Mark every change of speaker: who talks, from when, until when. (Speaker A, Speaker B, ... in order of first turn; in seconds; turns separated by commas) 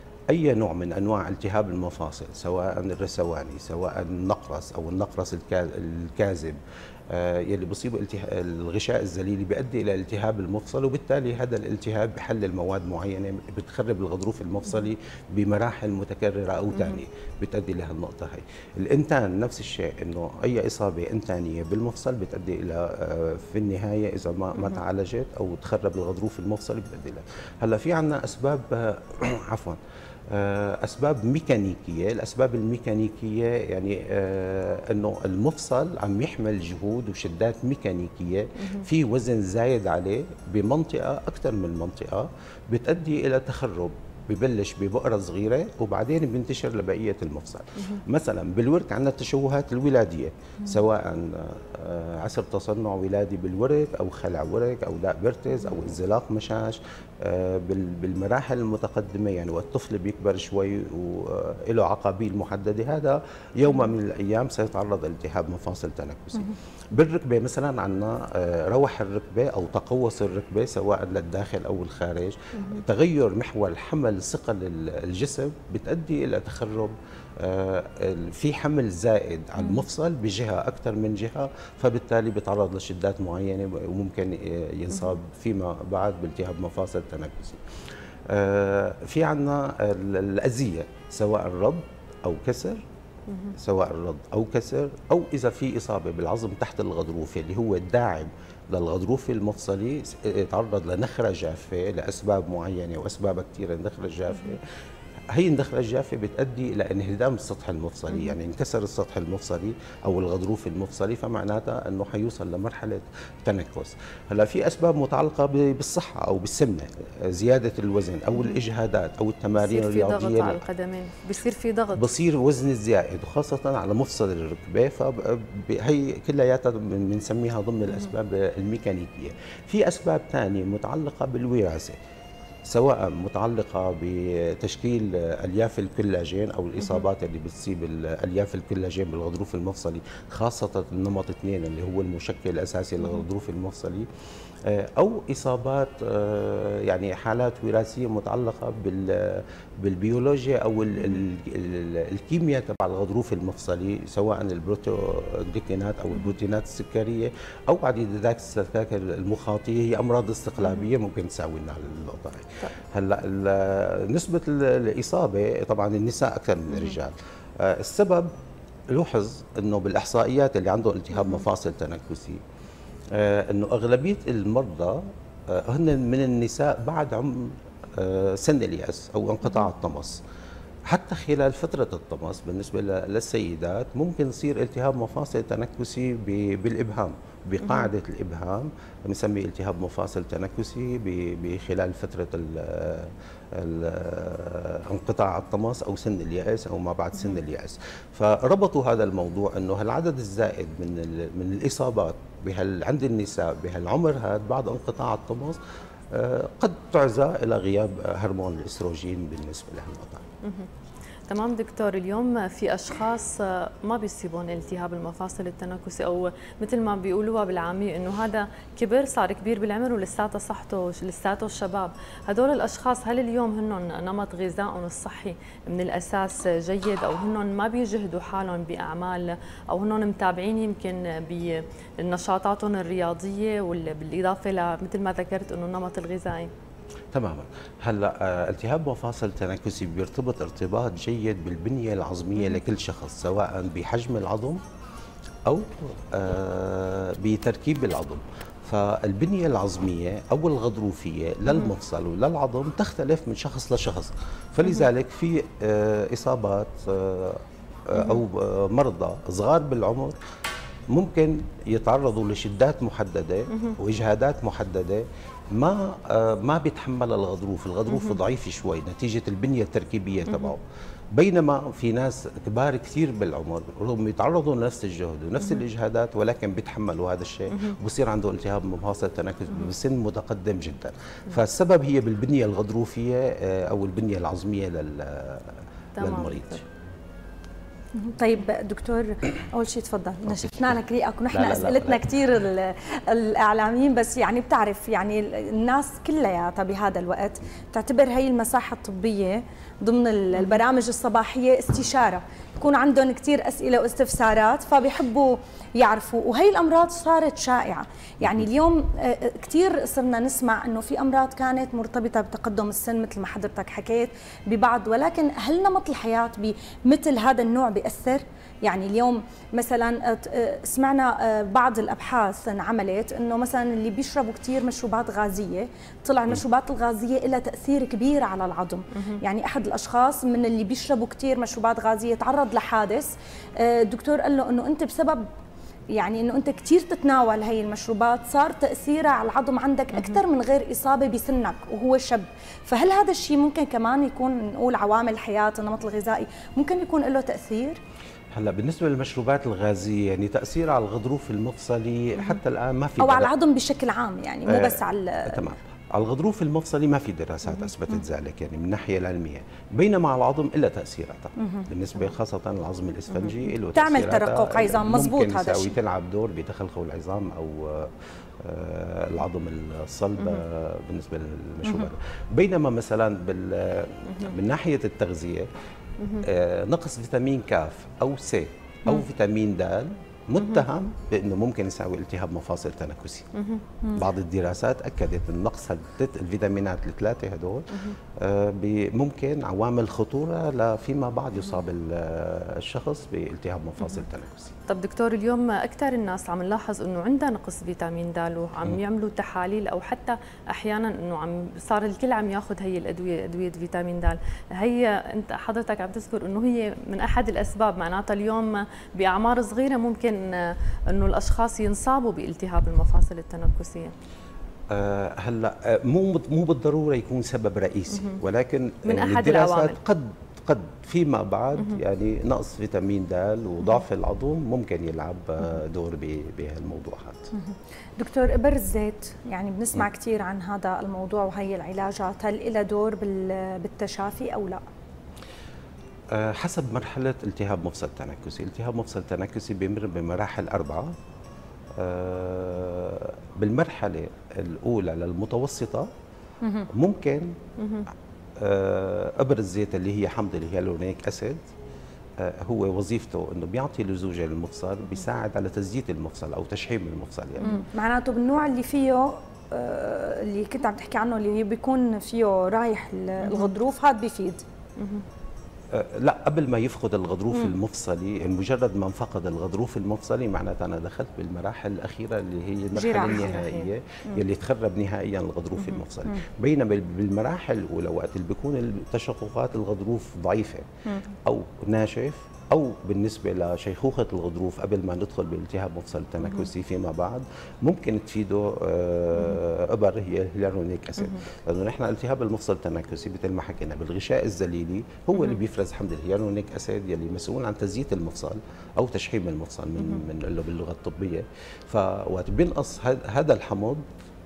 Speaker A: 0.3-87.6, Speaker A: 88.3-92.8, Speaker A: 93.5-104.6, Speaker A: 105.3-120.6, Speaker B: 119.6-122.0, Speaker A: 121.9-132.0, Speaker A: 132.7-144.1, Speaker A: 144.7-168.3, Speaker A: 168.9-172.4, Speaker A: 173.1-180.2, Speaker A: 180.9-210.3, Speaker B: 210.4-210.7, Speaker B: 211.3-236.5, Speaker A: 237.1-244.6, Speaker A: 245.5-260.2, Speaker A: 260.9-270.6, Speaker B: 270.3-270.5, Speaker A: 271.1-286.6, Speaker B: 277.5-277.8, Speaker B: 285.9-286.6, Speaker C: 287.9-335.3, Speaker A: 290.2-290.8, Speaker A: 291.3-292.0, Speaker C: 335.9-347.8, Speaker B: 339.9-340.2, Speaker A: 348.3-353.3, Speaker C: 353.0-355.5, Speaker A: 354.4-375.5, Speaker C: 361.4-361.7, Speaker C: 363.7-365.7, Speaker B: 376.0-376.2, Speaker A: 376.2-383.3, Speaker B: 380.4-380.6, Speaker B: 383.3-383.6, Speaker A: 383.9-394.5, Speaker B: 394.7-413.9, Speaker A: 414.7-427.3, Speaker B: 417.9-418.2, Speaker B: 418.9-419.8, Speaker C: 427.3-434.6, Speaker A: 436.1-440.9, Speaker A: 441.8-445.9, Speaker C: 446.4-446.7, Speaker A: 446.7-447.4, Speaker B: 447.6-447.9, Speaker A: 448.4-451.4, Speaker A: 452.2-457.6, Speaker C: 457.4-464.4, Speaker B: 463.2-463.5, Speaker B: 464.8-465.0, Speaker A: 465.7-480.7, Speaker C: 472.8-473.6, Speaker B: 473.0-473.6, Speaker A: 481.2-503.8